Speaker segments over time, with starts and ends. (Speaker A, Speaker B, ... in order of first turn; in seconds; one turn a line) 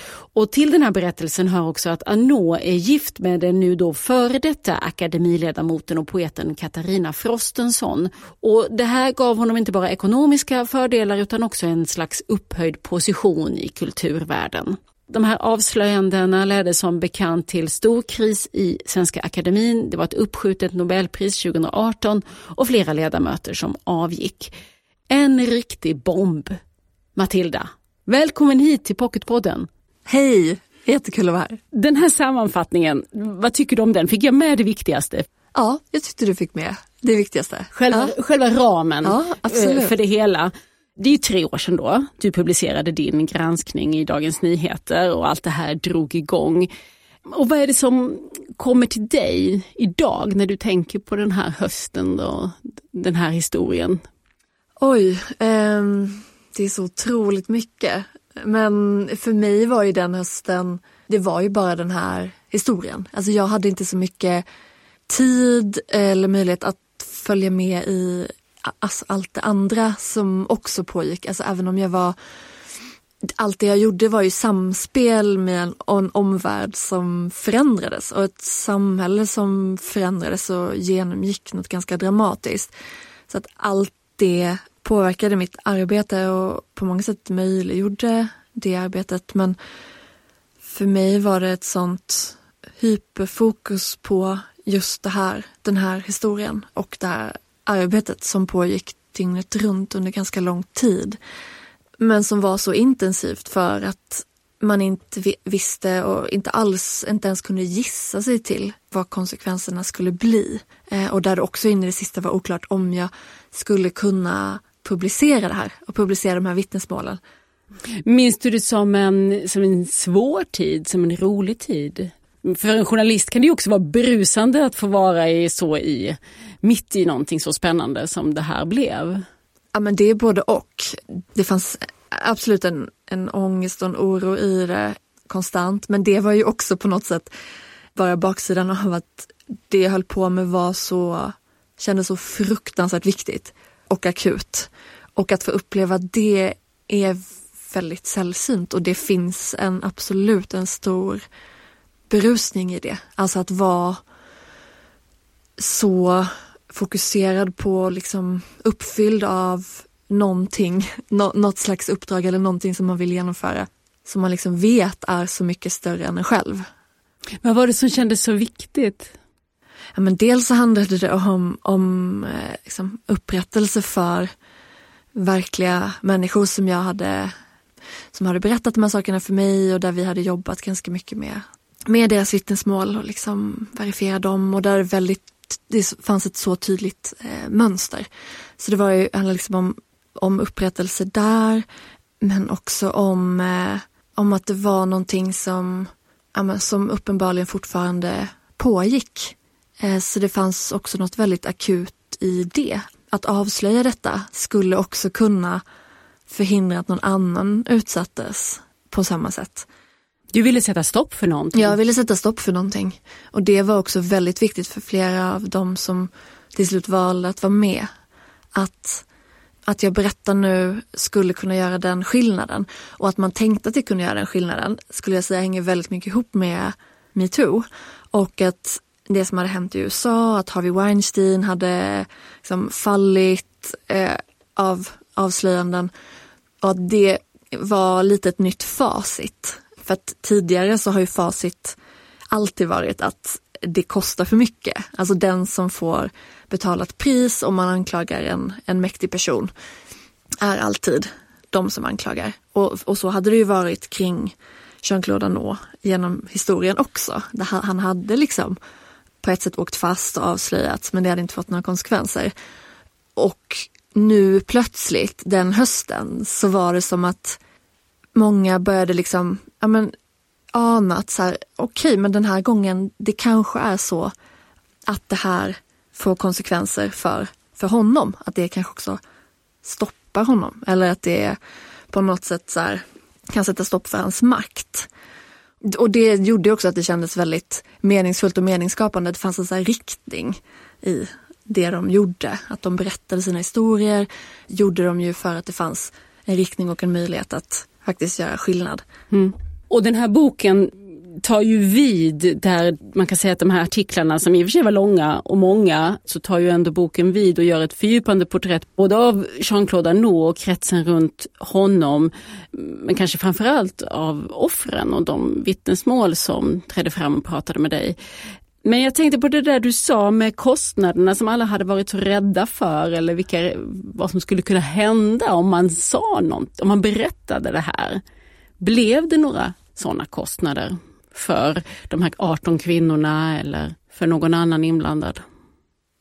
Speaker A: 0.3-24.5
Speaker A: 25.1-26.6
Speaker A: 27.1-29.7
Speaker B: 30.1-31.6
Speaker A: 31.7-35.2
Speaker B: 35.5-38.1
Speaker A: 37.7-46.7
Speaker B: 39.0-39.9
Speaker A: 47.3-54.0
Speaker B: 54.8-64.4
Speaker B: 65.1-72.2
Speaker B: 73.2-82.7
Speaker B: 83.3-89.6
Speaker B: 90.6-101.2
Speaker B: 102.0-117.2
Speaker A: 118.0-129.2
Speaker B: 129.7-137.3
Speaker B: 137.9-151.2
Speaker B: 152.1-154.0
Speaker B: 155.6-166.7
Speaker A: 167.4-169.1
Speaker B: 169.9-174.3
Speaker B: 175.1-177.3
Speaker B: 178.1-188.1
Speaker B: 188.6-191.7
Speaker B: 192.2-205.6
Speaker B: 206.3-209.7
Speaker A: 210.3-211.8
Speaker B: 211.5-217.9
Speaker B: 218.5-219.0
Speaker B: 219.7-235.9
Speaker B: 236.6-241.8
Speaker B: 242.3-249.5
Speaker B: 250.4-258.6
Speaker B: 259.2-262.3
Speaker B: 263.1-267.4
Speaker B: 268.1-269.9
Speaker B: 270.5-274.1
Speaker B: 274.9-279.0
Speaker B: 279.6-281.4
Speaker B: 281.9-284.9
Speaker B: 285.6-298.8
Speaker A: 299.1-318.0
Speaker A: 318.6-328.0
Speaker A: 328.6-335.2